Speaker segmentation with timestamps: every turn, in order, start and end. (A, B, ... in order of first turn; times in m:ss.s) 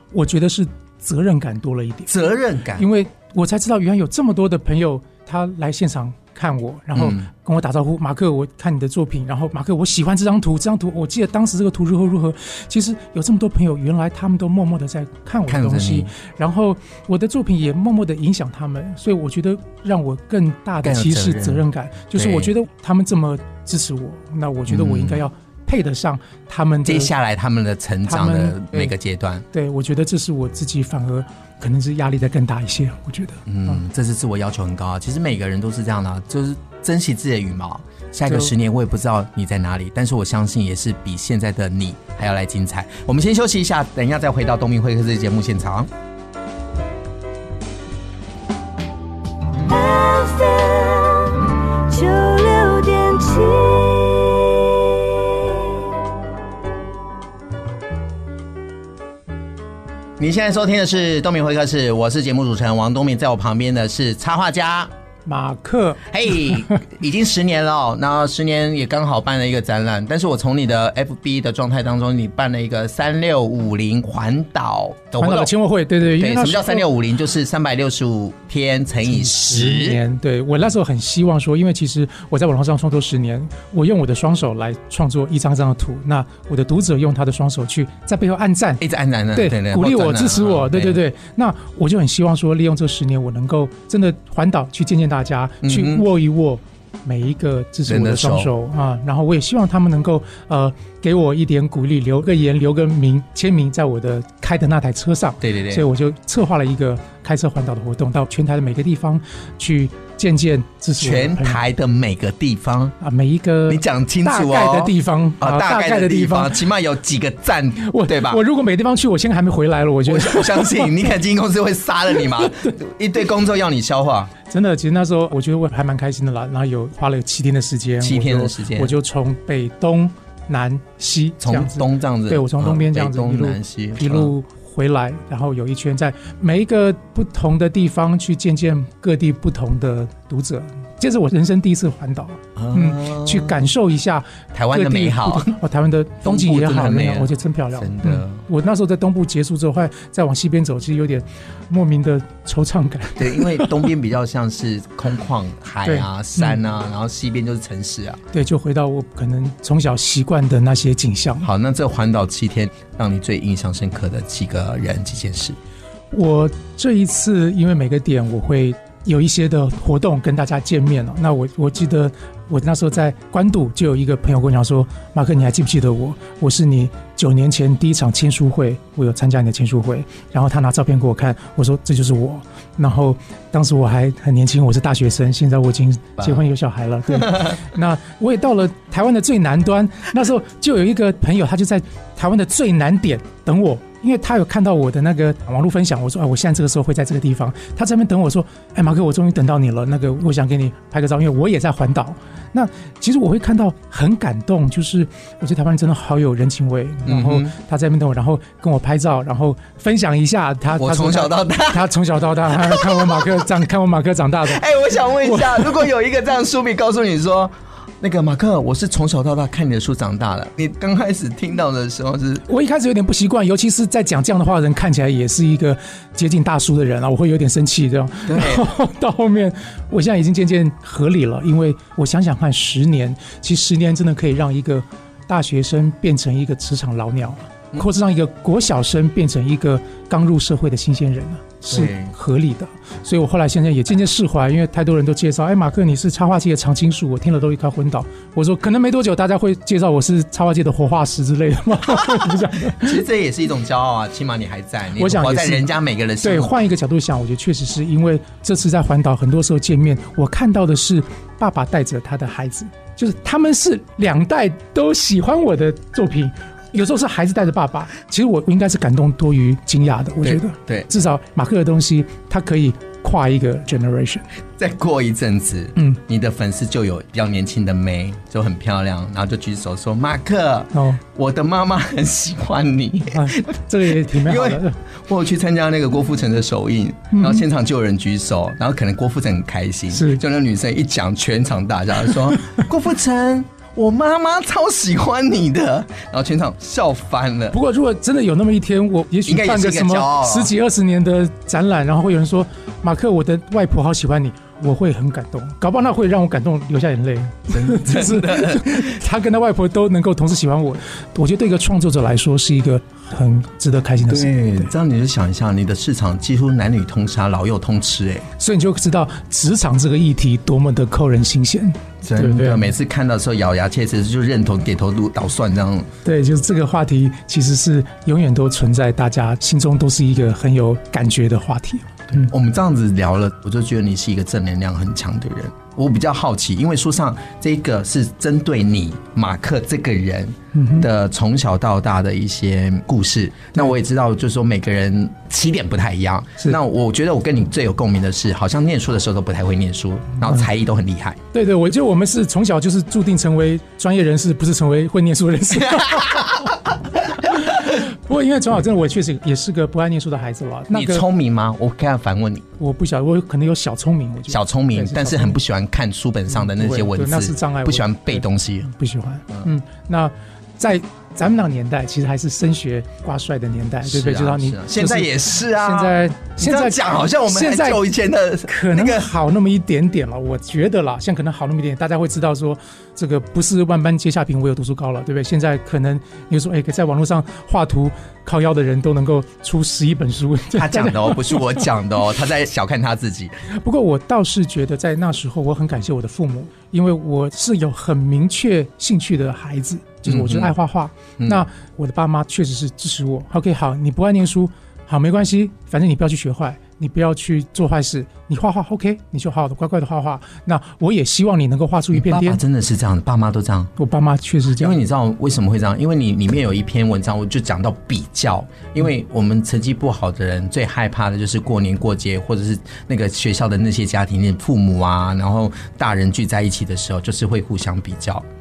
0:00.1-0:02.1 A
0:02.1-0:02.9 B
0:02.8-0:27.1 A
0:07.0-0:07.3 B
0:15.5-0:16.1 B
0:20.8-0:22.5 B
0:24.7-0:25.2 B
0:26.8-0:29.4 B
0:28.1-0:28.9 A
0:29.5-0:33.8 A
0:33.5-0:45.9 B
0:49.6-0:55.5 C
1:00.2-1:04.9 B
1:05.3-1:06.8 A
1:06.1-1:15.5 B
1:15.2-1:16.9 A
1:16.2-1:20.0 B
1:19.1-1:28.8 A
1:28.8-1:31.0 B
1:29.3-1:51.6 A
1:35.6-1:36.0 B
1:37.9-1:38.5 B
1:45.4-1:45.8 B
1:51.0-1:52.9 B
1:53.0-1:56.6 A
1:53.7-1:58.4 B
1:57.8-2:01.1 A
2:00.0-2:04.3 B
2:02.4-2:02.7 A
2:04.5-2:33.9 A
2:08.0-2:09.0 B
2:11.4-2:14.3 B
2:22.6-2:23.6 B
2:24.5-2:25.6 B
2:26.2-2:28.4 B
2:33.2-2:38.2 B
2:35.8-2:36.6 A
2:38.3-2:41.5 A
2:41.4-2:45.6 B
2:46.1-3:34.6 A
3:27.1-3:27.5 B
3:30.8-3:31.9 B
3:32.5-3:33.5 B
3:34.4-3:42.4 B
3:35.2-3:35.8 A
3:42.5-4:13.0 A
3:48.3-3:48.7 B
4:01.7-4:02.1 B
4:12.0-4:16.5 B
4:15.0-4:34.2 A
4:30.2-4:30.9 B
4:34.6-4:57.6 B
4:40.7-4:41.0 A
4:43.1-4:44.8 A
4:47.1-4:47.4 A
4:49.9-4:50.2 A
4:57.5-5:14.7 A
4:59.3-5:00.5 B
5:07.5-5:09.0 B
5:14.0-5:18.3 B
5:18.4-5:22.7 A
5:22.0-5:25.9 B
5:26.0-5:32.3 A
5:32.1-5:51.2 B
5:40.5-5:40.8 A
5:51.3-5:56.4 A
5:55.7-5:56.5 B
5:57.2-6:01.1 A
6:00.7-6:02.5 B
6:02.6-6:05.4 A
6:04.3-6:08.7 B
6:06.3-6:17.8 A
6:13.8-6:19.1 B
6:18.5-6:31.6 A
6:30.5-6:33.3 B
6:33.5-6:52.4 A
6:40.1-6:40.5 B
6:51.9-6:53.7 B
6:53.8-6:54.8 A
6:54.6-7:08.2 B